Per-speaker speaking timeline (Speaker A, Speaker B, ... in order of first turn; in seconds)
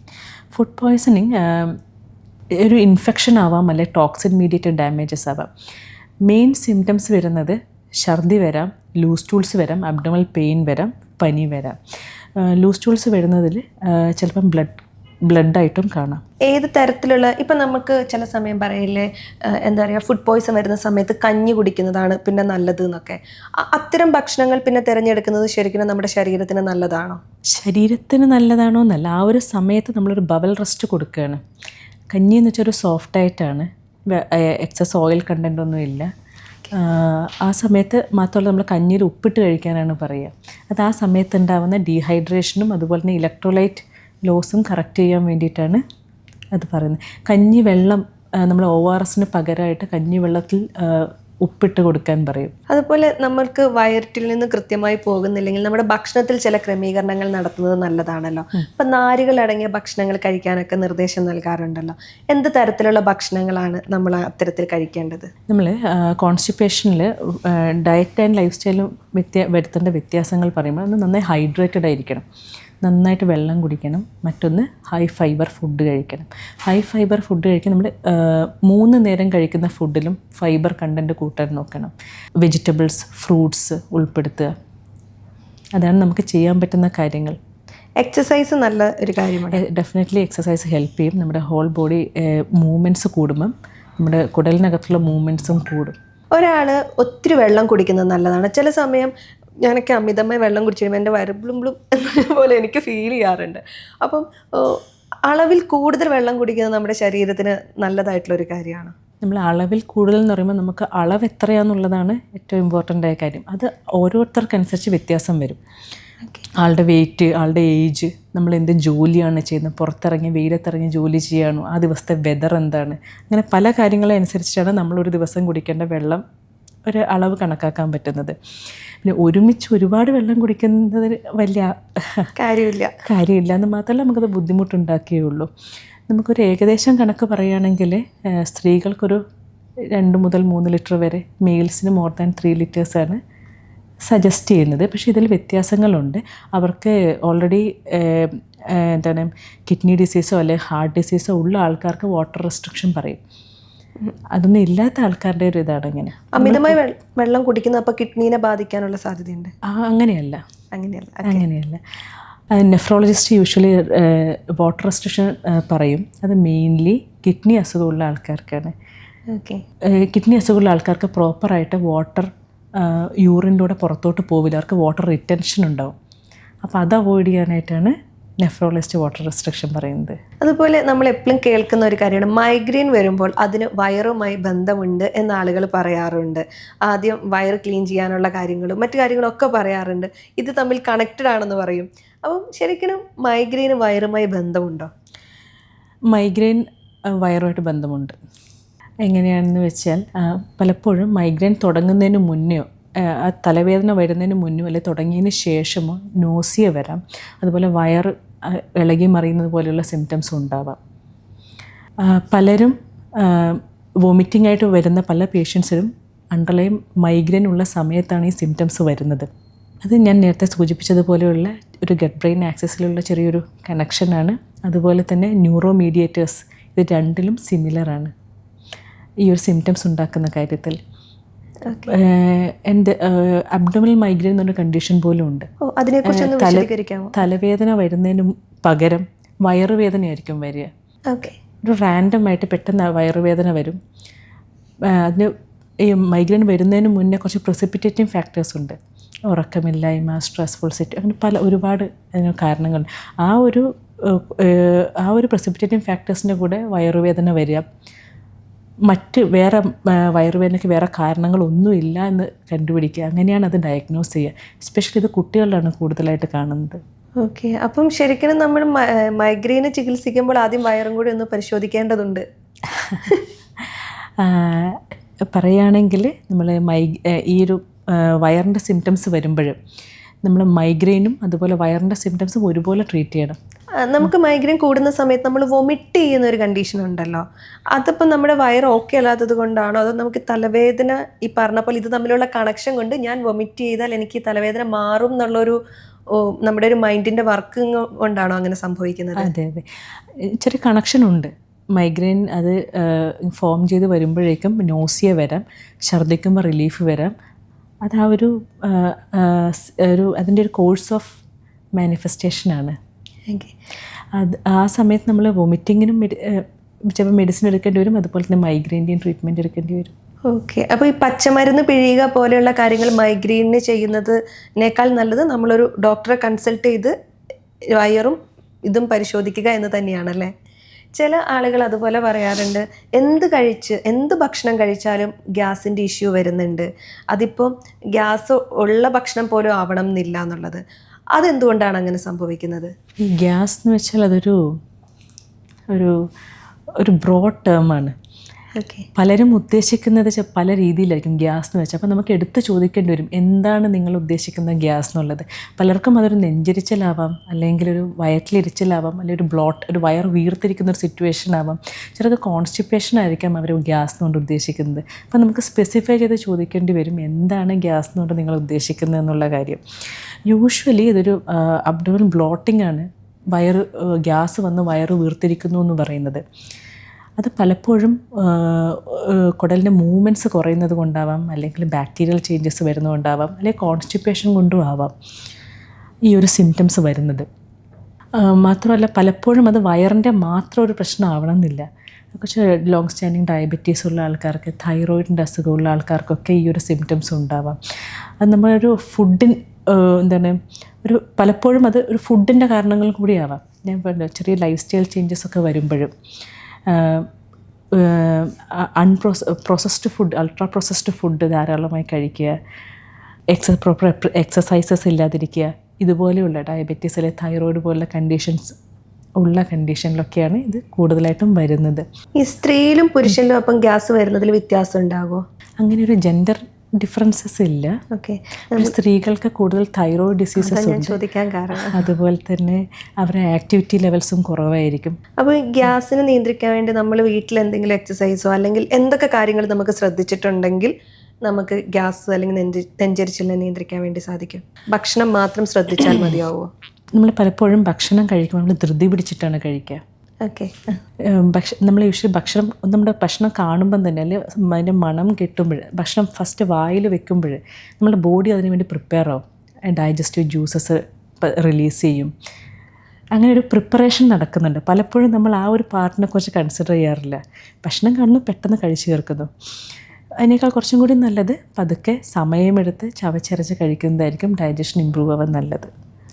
Speaker A: 0.5-1.8, 2.6-5.5, 6.2-11.8, 12.4-16.2, 27.5-31.4, 32.1-36.1, 36.7-45.8, 46.5-52.5, 65.5-72.2, 72.8-84.5, 85.8-87.4, 89.5-96.0, 109.2-115.6, 116.6-126.2, 126.9-128.3, 129.0-132.3, 133.1-135.5, 136.1-139.2, 139.9-143.2, 144.1-153.2, 154.3-156.8, 159.7-160.4, 161.2-161.8, 162.5-168.7, 169.9-175.9, 176.6-180.2, 196.1-198.1, 199.0-210.8, 212.0-219.3, 219.8-228.1, 229.2-230.8, 231.9-235.5, 236.1-240.7, 241.6-243.8, 244.9-248.8, 249.3-257.6, 258.9-266.8, 272.8-273.1, 274.2-279.6, 280.2-283.4, 299.2-299.7, 300.2-307.1, 307.8-311.2, 311.8-312.8, 314.1-319.9, 343.0-344.6, 345.7-346.0, 346.8-347.9, 348.9-369.6, 370.3-376.2, 377.2-384.9, 386.1-387.3, 388.2-397.6, 398.2-405.9, 406.7-407.1, 407.7-412.4, 413.3-418.5, 419.2-421.9, 425.6-427.8, 428.5-431.0, 431.6-435.0, 447.0-449.8, 451.0-462.1, 463.1-469.3, 470.2-475.7
Speaker B: 16.5-27.2, 52.7-65.3, 88.0-89.6, 96.3-99.1, 99.6-108.9, 132.4-132.9, 156.4-159.5, 160.7-161.4, 169.3-169.6, 180.4-194.9, 231.7-231.9, 235.6-237.2, 241.1-241.4, 267.2-272.2, 283.8-295.6, 296.1-299.3, 320.3-326.9, 327.7-330.3, 330.9-340.6, 341.1-342.7, 348.6-348.9, 422.2-425.2, 427.9-428.7, 430.4-431.8, 435.2-440.7, 441.2-446.5, 450.2-450.7